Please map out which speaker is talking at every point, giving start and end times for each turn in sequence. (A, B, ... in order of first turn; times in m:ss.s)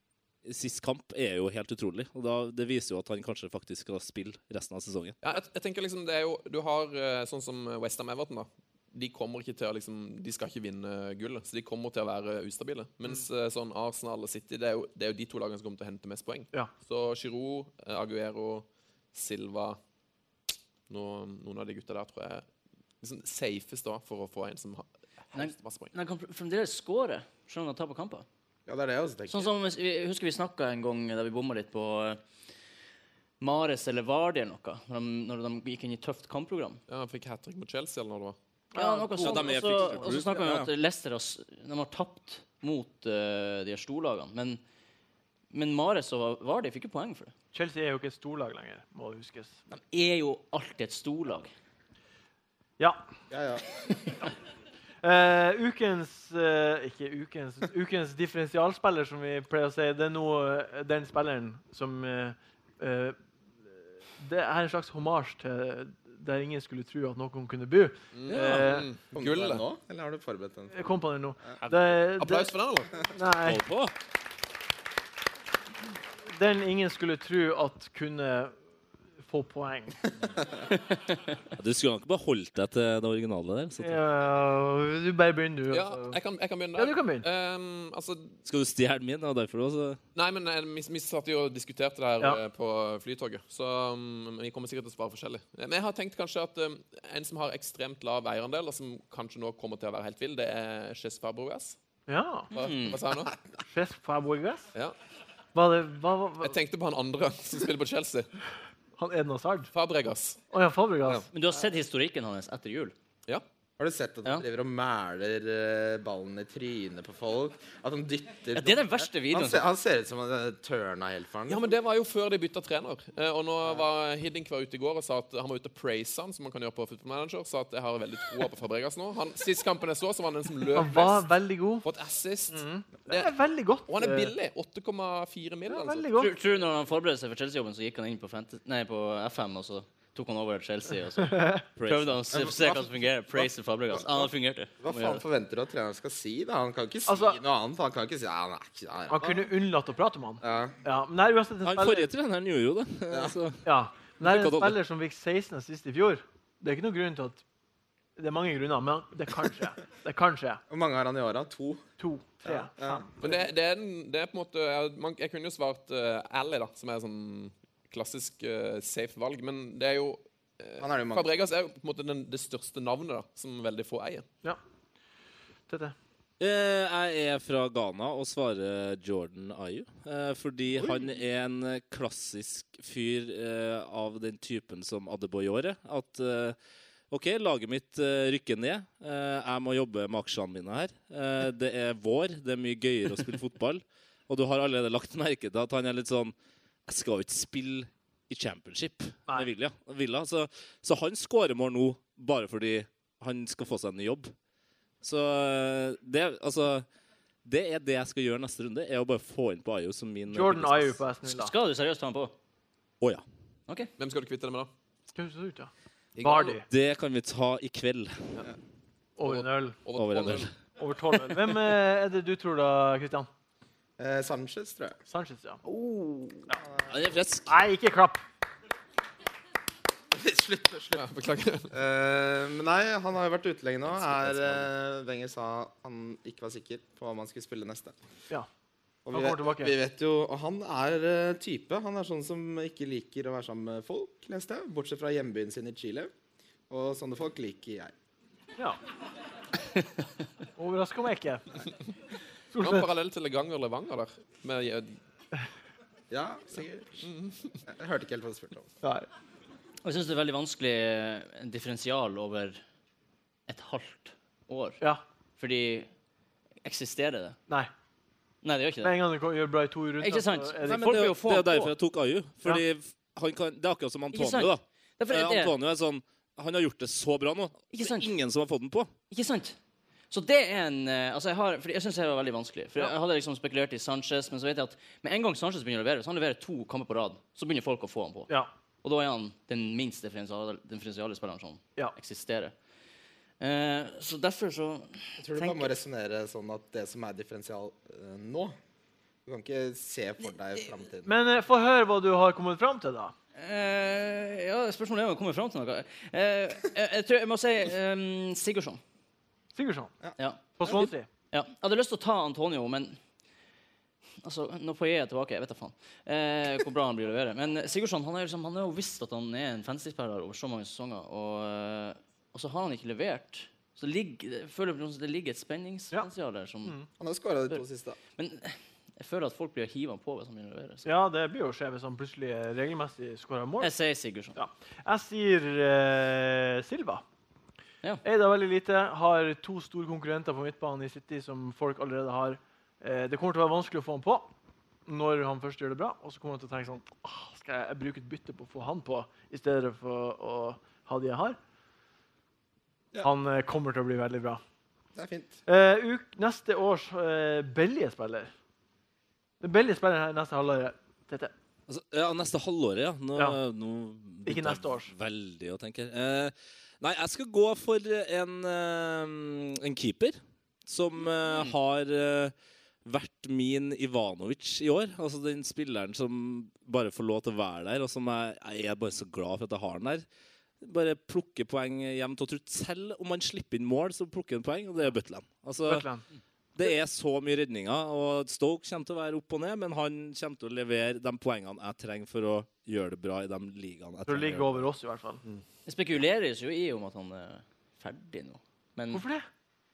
0:00.4-0:05.2 A
0:05.2-0:19.8 B
0:20.9-0:22.5 B
0:23.0-0:25.9 B
0:25.3-0:28.2 C
0:28.7-0:29.5 D
0:29.3-0:32.2 C
0:33.4-0:36.8 C
0:36.9-0:38.4 B
0:38.7-0:40.2 E
0:38.7-0:44.6 C
0:39.2-0:40.7 A
0:45.5-0:47.3 C
0:47.5-0:49.6 E
0:49.7-0:51.5 C
0:52.8-0:53.0 E
0:53.3-0:53.6 D
0:55.0-1:03.2 E
1:04.2-1:08.9 E
1:08.1-1:09.6 B
1:08.3-1:08.6 A
1:09.1-1:10.7 D
1:10.7-1:12.5 E
1:11.6-1:13.1 B
1:13.0-1:13.6 E
1:13.4-1:13.9 A
1:16.3-1:18.5 E
1:19.2-1:20.0 E
1:20.8-1:21.2 C
1:21.6-1:24.0 A
1:23.8-1:26.2 E
1:25.7-1:28.4 B
1:26.8-1:27.2 E
1:28.4-1:30.0 A
1:30.1-1:41.8 B
1:42.1-1:42.5 E
1:42.5-1:43.3 B
1:42.5-1:43.0 C
1:43.7-1:44.7 E
1:45.5-1:46.6 E
1:46.4-1:48.3 B
1:49.0-1:49.7 E
1:49.7-1:50.4 B
1:50.5-1:51.3 E
1:51.3-1:52.9 C
1:53.8-2:01.7 D
1:58.5-1:59.7 C
2:01.5-2:11.3 B
2:10.7-2:11.8 E
2:11.8-2:13.3 B
2:12.5-2:14.3 E
2:13.9-2:16.1 B
2:15.7-2:16.3 E
2:16.2-2:25.2 C
2:21.2-2:21.6 E
2:21.8-2:22.4 A
2:22.3-2:22.9 D
2:23.9-2:24.3 D
2:24.8-2:29.5 D
2:27.1-2:27.4 E
2:29.1-2:32.1 E
2:30.4-2:30.8 D
2:31.6-2:33.6 A
2:33.1-2:33.4 D
2:33.6-2:37.4 E
2:34.2-2:34.8 A
2:38.2-2:40.6 E
2:40.7-2:41.8 D
2:42.0-2:43.0 E
2:42.4-2:43.4 D
2:43.2-2:54.3 B
2:50.8-2:51.3 D
2:55.7-2:55.9 E
2:56.4-3:06.6 A
3:07.1-3:16.3 A
3:16.9-3:24.3 A
3:25.0-3:26.8 A
3:27.4-3:31.0 A
3:30.3-3:31.5 E
3:31.3-3:32.3 C
3:34.0-3:34.7 B
3:35.1-3:36.6 E
3:36.2-3:36.6 B
3:36.6-3:38.3 A
3:39.2-3:39.8 E
3:39.2-3:40.5 B
3:40.0-3:40.5 A
3:40.8-3:43.3 E
3:44.0-3:45.0 D
3:45.1-3:45.6 E
3:45.6-3:46.4 C
3:46.9-3:47.5 A
3:47.5-3:48.2 E
3:50.1-3:51.0 D
3:50.9-3:51.7 B
3:51.7-3:58.0 D
3:53.9-3:54.6 B
3:59.0-4:06.1 D
3:59.1-3:59.7 E
4:06.7-4:07.9 D
4:10.6-4:11.6 E
4:12.5-4:12.9 E
4:12.6-4:15.0 B
4:16.1-4:17.1 D
4:17.0-4:17.6 B
4:17.6-4:18.7 D
4:18.8-4:19.1 E
4:19.8-4:22.6 C
4:23.5-4:24.8 C
4:25.4-4:25.9 C
4:26.6-4:27.4 C
4:28.4-4:29.0 C
4:28.8-4:31.0 E
4:30.0-4:31.7 C
4:30.6-4:38.9 A
4:34.1-4:35.5 C
4:37.7-4:38.1 C
4:39.1-4:39.6 C
4:40.1-4:48.3 C
4:48.8-4:52.5 C
4:53.4-4:55.8 C
4:55.2-4:58.6 D
4:59.2-5:01.1 D
5:01.0-5:03.1 E
5:03.4-5:08.8 C
5:09.5-5:09.9 E
5:10.2-5:13.0 C
5:10.6-5:11.1 E
5:14.2-5:26.7 C
5:27.0-5:28.0 D
5:28.2-5:30.9 C
5:30.8-5:33.7 E
5:33.6-5:34.4 C
5:34.3-5:37.0 E
5:38.0-5:44.3 E
5:44.9-5:51.4 E
5:53.0-5:54.4 E
5:54.9-5:55.4 D
5:55.4-5:58.3 E
5:59.4-6:01.3 E
6:01.7-6:12.3 A
6:04.2-6:04.9 E
6:11.2-6:11.5 C
6:12.8-6:20.0 A
6:20.6-6:25.9 A
6:25.6-6:26.0 E
6:26.6-6:34.6 A
6:34.0-6:35.2 E
6:35.6-6:39.0 C
6:38.9-6:39.3 E